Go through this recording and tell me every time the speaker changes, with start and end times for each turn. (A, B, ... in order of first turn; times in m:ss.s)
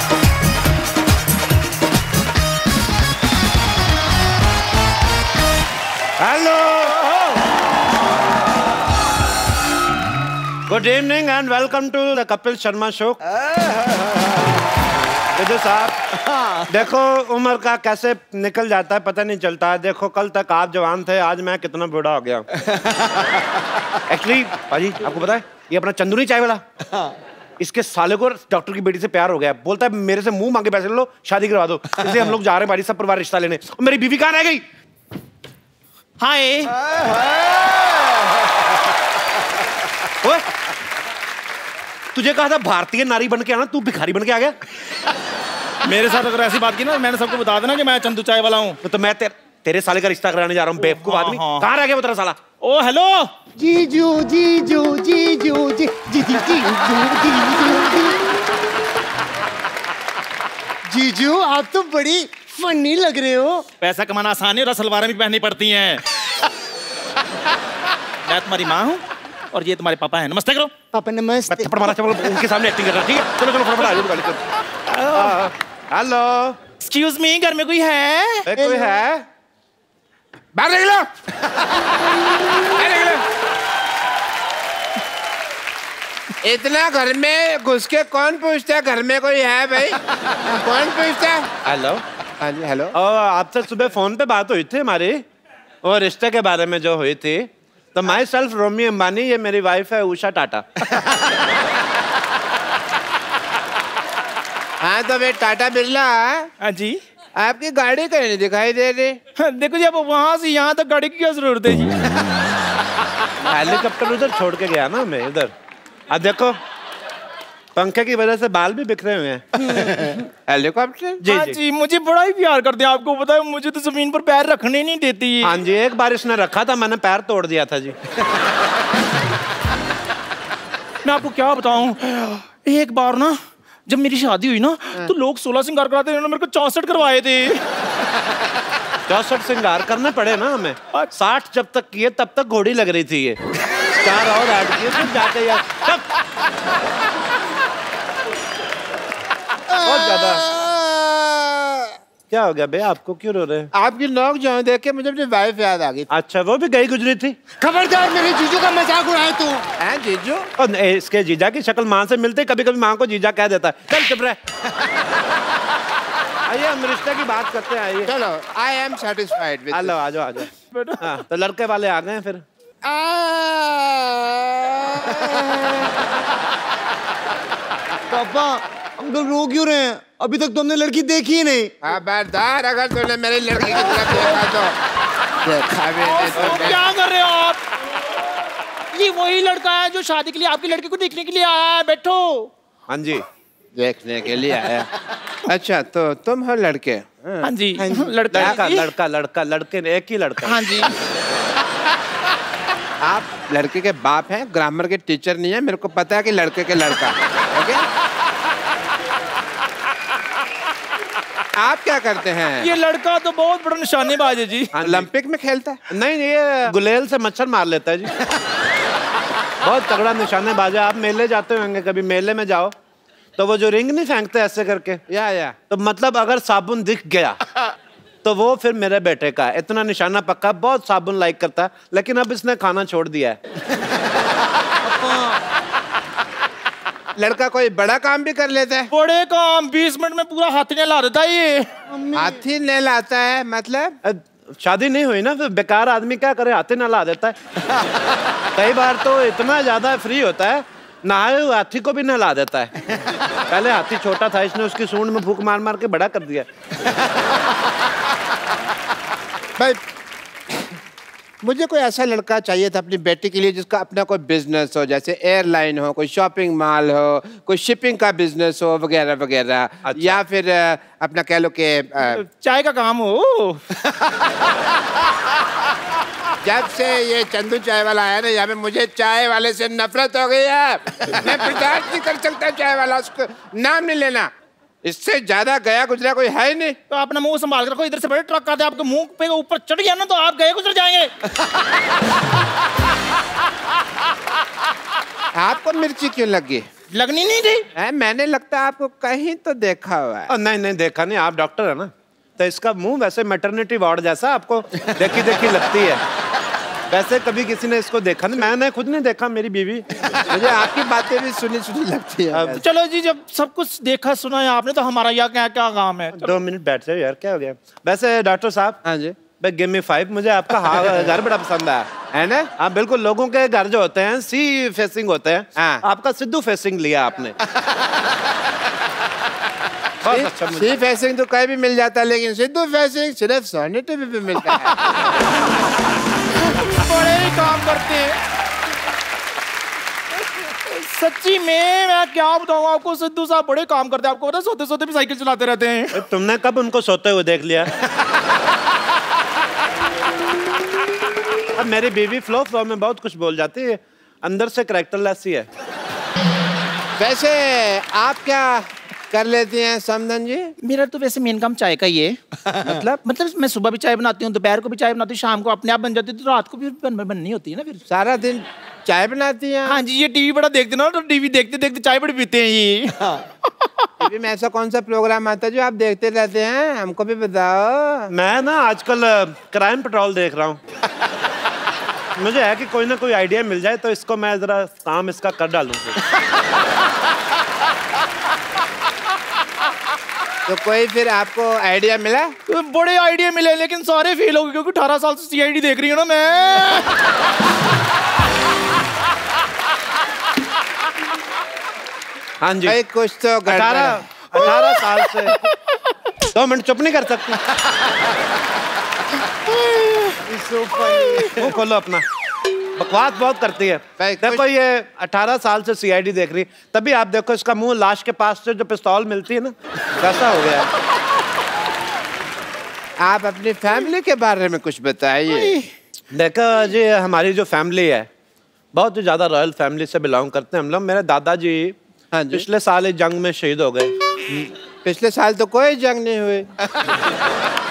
0:06.2-0:07.1 A
0:10.7-0:13.2 A
0:15.3-0:16.0 A
0:16.7-0:22.5 A
0:24.1-0:26.6 A
0:27.6-0:34.6 A
0:36.2-0:36.7 B
0:42.1-0:44.6 A
0:45.8-0:48.8 B
0:48.8-0:52.4 A
0:50.9-0:51.6 B
0:52.6-0:53.3 B
0:53.6-0:58.2 C
1:00.9-1:03.6 C
1:03.8-1:06.0 B
1:08.2-1:10.7 B
1:10.9-1:12.0 C
1:11.5-1:14.4 A
1:14.9-1:15.4 B
1:15.1-1:16.6 A
1:16.8-1:18.5 B
1:18.4-1:19.2 A
1:18.6-1:19.0 C
1:20.5-1:21.1 D
1:22.7-1:23.2 D
1:26.4-1:31.5 D
1:31.6-1:32.0 A
1:32.4-1:32.9 D
1:32.9-1:35.2 A
1:35.8-1:40.6 A
1:44.8-1:46.5 D
1:46.6-1:47.0 B
1:47.4-1:49.2 D
1:49.4-1:52.3 B
1:53.4-1:55.5 A
1:56.1-1:56.6 A
1:57.7-1:59.4 A
2:00.5-2:01.2 D
2:01.2-2:01.6 A
2:01.2-2:05.6 B
2:05.4-2:08.0 A
2:11.0-2:17.6 B
2:19.1-2:23.4 A
2:24.0-2:26.0 A
2:29.7-2:31.2 C
2:29.8-2:30.4 A
2:32.3-2:33.7 A
2:33.7-2:36.1 D
2:36.1-2:37.4 A
2:37.6-2:39.6 C
2:39.8-2:40.5 D
2:40.6-2:44.4 A
2:46.4-2:48.1 A
2:48.0-2:50.0 D
2:49.7-2:52.4 A
2:50.7-2:51.0 B
2:52.8-2:55.9 D
2:58.1-3:01.8 C
3:01.8-3:04.8 D
3:03.7-3:04.2 C
3:05.4-3:06.8 D
3:06.0-3:07.6 B
3:06.3-3:06.8 A
3:08.9-3:12.5 B
3:12.9-3:13.2 A
3:13.8-3:14.9 D
3:15.4-3:17.5 D
3:17.4-3:18.9 B
3:17.8-3:18.1 C
3:18.3-3:20.5 A
3:20.4-3:20.9 B
3:23.0-3:27.8 D
3:31.6-3:32.7 D
3:32.6-3:34.7 B
3:34.7-3:35.1 A
3:34.8-3:35.8 D
3:35.9-3:38.1 A
3:39.6-3:42.7 A
3:43.4-3:45.0 A
3:45.1-3:45.6 D
3:45.7-3:47.4 A
3:48.2-3:53.4 A
3:54.8-3:55.4 C
3:57.2-3:58.9 D
3:58.9-4:01.7 B
4:01.9-4:02.4 C
4:02.1-4:04.0 D
4:04.0-4:07.4 A
4:08.5-4:12.9 A
4:13.5-4:16.5 A
4:21.4-4:32.2 D
4:29.8-4:30.2 A
4:32.0-4:33.6 B
4:36.4-4:44.3 D
4:44.8-4:46.8 D
4:46.9-4:51.1 B
4:55.3-4:56.6 D
4:56.9-4:57.6 B
4:57.8-5:00.3 D
5:00.3-5:06.0 A
5:06.9-5:09.9 A
5:10.3-5:12.6 D
5:12.3-5:12.6 A
5:12.5-5:16.4 B
5:16.1-5:18.8 A
5:18.8-5:19.2 D
5:19.4-5:21.9 A
5:22.1-5:22.5 D
5:22.6-5:27.4 A
5:25.6-5:25.8 D
5:30.0-5:30.8 A
5:30.1-5:34.8 D
5:34.6-5:35.1 B
5:36.4-5:38.2 B
5:40.4-5:46.0 B
5:45.9-5:47.7 A
5:51.5-5:55.5 A
5:57.0-6:00.5 D
6:00.6-6:07.8 B
6:07.9-6:09.8 D
6:09.6-6:13.7 B
6:14.0-6:18.1 D
6:18.1-6:20.6 A
6:22.2-6:26.0 A
6:30.5-6:32.3 D
6:32.5-6:36.9 B
6:42.4-6:42.8 A
6:42.6-6:44.8 D
6:43.5-6:45.4 A
6:46.3-6:47.5 A
6:49.6-6:50.1 B
6:50.2-6:51.5 C
6:51.3-6:52.0 A
6:52.8-7:00.7 A
6:54.0-6:54.4 D
7:03.0-7:05.6 D
7:06.1-7:08.1 A
7:08.7-7:11.8 A
7:12.1-7:12.4 D
7:12.3-7:13.9 A
7:14.3-7:16.5 D